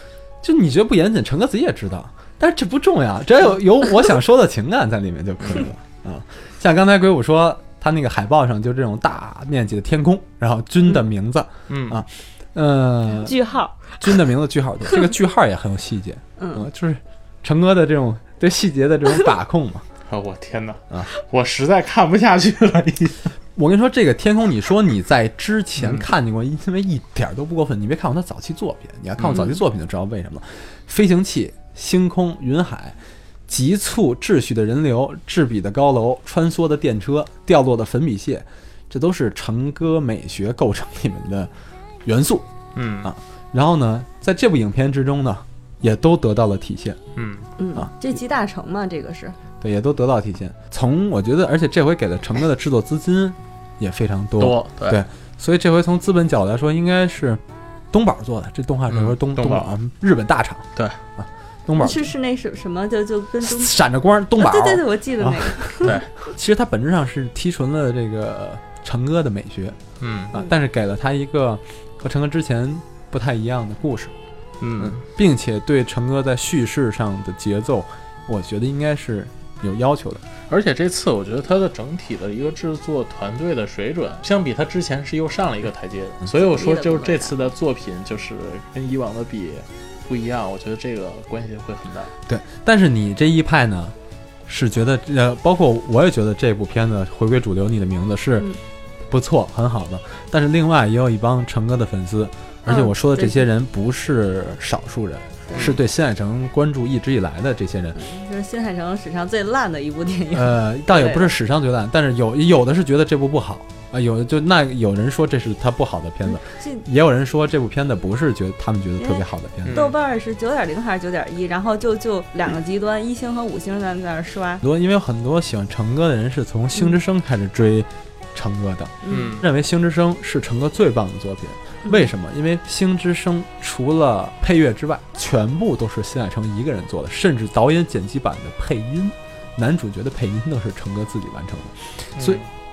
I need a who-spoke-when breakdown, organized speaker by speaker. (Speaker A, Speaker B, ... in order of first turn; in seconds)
Speaker A: 0.4-13.4, 14.0-19.9, 23.6-41.5, 42.0-42.5, 43.0-47.0, 49.6-62.1, 63.4-69.8, 70.3-74.1, 74.8-80.2, 92.3-94.0, 94.5-98.5, 99.1-108.0, 110.3-119.8, 124.6-142.4
Speaker B: 11.7-12.0, 20.1-23.3, 25.8-26.1, 29.2-29.5, 42.8-43.1, 47.2-47.5, 54.4-55.0, 58.9-59.7, 70.0-70.3, 74.6-75.0, 80.5-92.1, 119.7-120.0, 129.1-129.5, 142.2-142.5
Speaker C: 13.2-14.0, 16.4-16.7, 47.6-49.4, 61.8-63.7, 64.4-66.0, 86.3-87.4, 102.7-103.5, 108.0-111.3, 116.3-116.8, 119.0-124.6, 129.0-129.4